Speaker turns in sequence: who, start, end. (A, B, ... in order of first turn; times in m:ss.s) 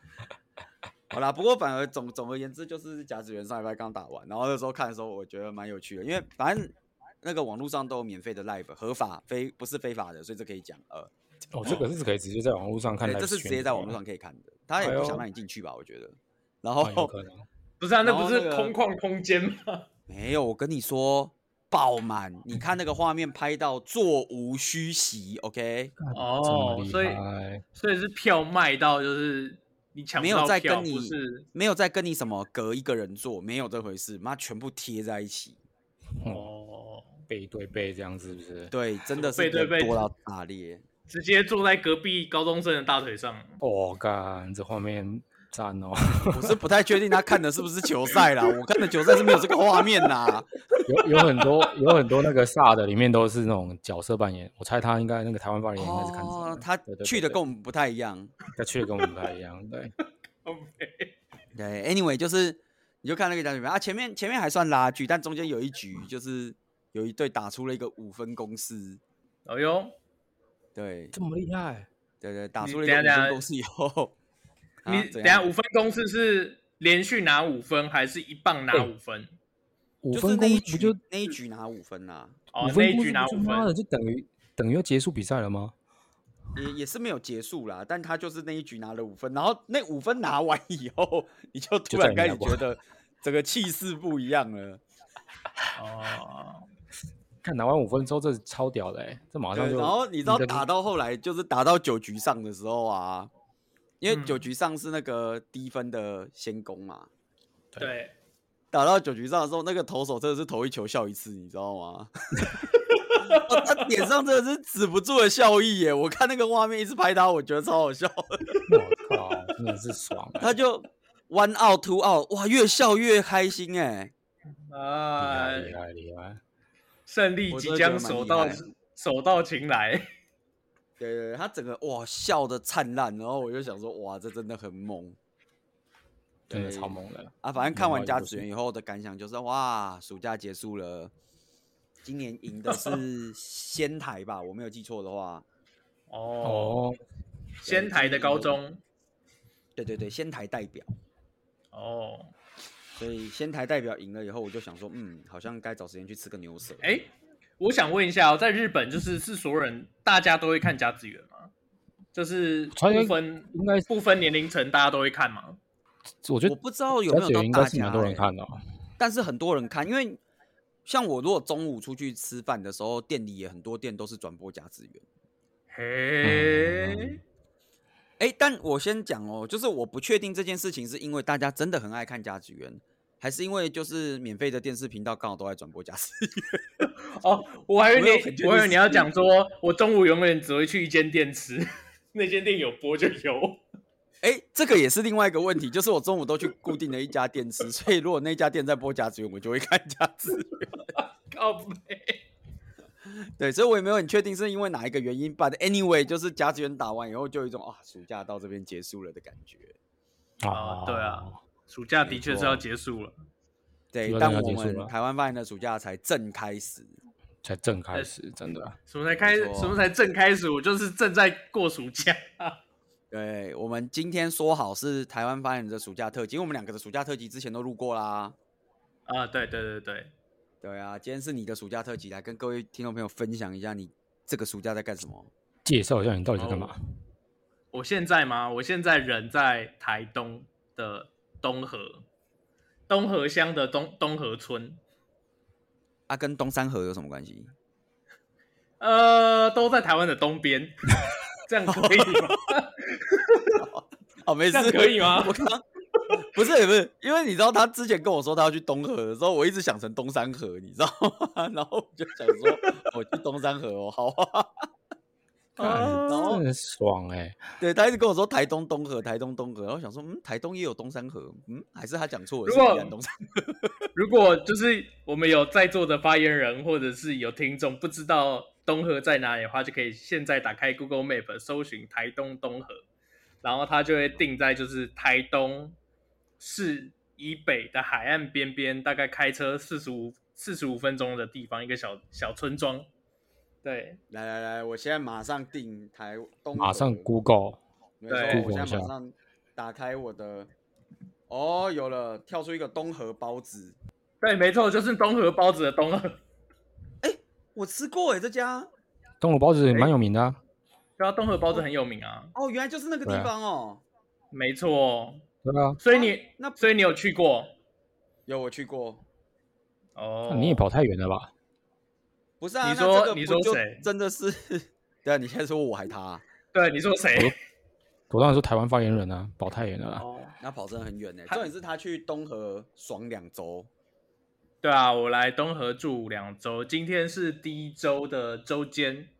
0:01.1-0:11.1 A
0:11.5-0:14.0 B
0:13.0-0:17.1 A
0:14.8-0:15.2 B
0:16.8-0:17.4 B
0:17.8-0:19.8 C
0:18.0-0:18.7 A
0:20.1-0:25.9 A
0:26.0-0:27.6 B
0:26.1-0:27.2 C
0:27.7-0:31.4 C
0:30.2-0:35.6 A
0:36.2-0:36.5 B
0:36.2-0:37.2 C
0:37.3-0:38.7 B
0:38.7-0:40.8 A
0:39.2-0:40.0 C
0:41.1-0:43.6 C
0:43.6-0:46.6 B
0:46.3-0:50.5 A
0:49.1-0:50.1 C
0:50.7-0:51.7 C
0:50.9-0:57.4 B
0:55.8-0:58.3 A
0:58.5-0:59.9 B
1:00.4-1:01.1 C
1:01.5-1:09.0 A
1:09.4-1:09.9 C
1:10.7-1:11.1 A
1:11.1-1:11.9 B
1:12.2-1:14.1 A
1:12.6-1:13.4 C
1:14.8-1:15.5 A
1:14.9-1:19.3 C
1:20.0-1:21.0 B
1:20.1-1:22.4 A
1:22.5-1:23.7 C
1:22.6-1:25.7 B
1:26.5-1:34.8 A
1:31.9-1:32.6 B
1:35.8-1:36.6 C
1:37.4-1:40.6 B
1:39.5-1:43.3 A
1:44.0-1:47.1 A
1:44.1-1:44.4 C
1:47.8-1:48.1 C
1:48.7-1:52.6 A
1:52.8-1:53.8 C
1:53.2-1:58.4 A
1:58.7-2:00.5 B
2:00.4-2:04.1 A
2:04.7-2:05.7 C
2:05.2-2:06.4 B
2:07.1-2:10.0 C
2:07.5-2:08.6 A
2:11.0-2:15.2 A
2:16.5-2:16.9 A
2:16.5-2:18.4 B
2:17.4-2:21.1 A
2:22.0-2:25.4 A
2:26.1-2:26.8 C
2:26.4-2:26.9 B
2:27.6-2:28.6 A
2:27.6-2:28.8 C
2:29.8-2:30.9 A
2:31.7-2:32.3 C
2:33.0-2:36.9 A
2:36.8-2:41.5 C
2:42.1-2:45.6 C
2:42.7-2:43.9 B
2:46.2-2:46.6 B
2:46.4-2:48.3 A
2:47.1-2:48.6 B
2:49.0-2:50.2 A
2:50.8-2:55.0 A
2:55.7-2:57.2 C
2:56.2-2:57.2 B
2:58.2-3:06.6 A
3:06.8-3:13.6 C
3:07.9-3:09.1 A
3:14.2-3:20.9 A
3:20.9-3:22.2 C
3:23.0-3:29.7 A
3:30.4-3:31.4 B
3:30.5-3:33.1 C
3:32.0-3:32.6 A
3:33.9-3:36.9 A
3:34.0-3:34.9 B
3:37.4-3:38.8 B
3:38.9-3:42.6 C
3:39.2-3:39.8 A
3:43.1-3:48.4 A
3:49.1-3:50.1 C
3:50.6-3:55.3 A
3:55.6-3:56.8 B
3:56.4-3:56.7 C
3:57.7-4:02.0 C
4:02.9-4:04.8 C
4:06.1-4:07.5 A
4:08.8-4:10.7 C
4:11.4-4:13.6 C
4:11.7-4:12.3 A
4:13.6-4:15.6 A
4:14.5-4:15.4 C
4:16.2-4:24.7 A
4:25.6-4:26.4 C
4:25.6-4:27.4 B
4:26.1-4:26.4 A
4:27.6-4:33.7 A
4:32.4-4:32.9 C
4:33.9-4:42.8 C
4:43.4-4:45.8 C
4:46.4-4:52.9 C
4:53.6-4:54.0 C
4:54.1-4:57.1 A
4:56.6-4:57.6 B
4:58.0-5:00.5 A
4:58.1-4:58.4 C
4:58.3-4:58.9 B
5:01.3-5:03.8 A
5:04.2-5:06.2 C
5:07.0-5:08.7 A
5:09.2-5:10.4 B
5:11.0-5:12.3 C
5:12.3-5:13.8 A
5:13.0-5:13.3 B
5:14.3-5:15.2 C
5:15.4-5:15.8 B
5:15.8-5:17.5 C
5:15.9-5:16.6 A
5:18.3-5:19.0 A
5:20.0-5:20.6 C
5:20.3-5:21.3 B
5:22.4-5:26.2 A
5:22.6-5:23.8 C
5:26.5-5:27.3 C
5:28.1-5:30.0 B
5:30.0-5:30.4 C
5:30.4-5:33.7 A
5:34.6-5:39.1 C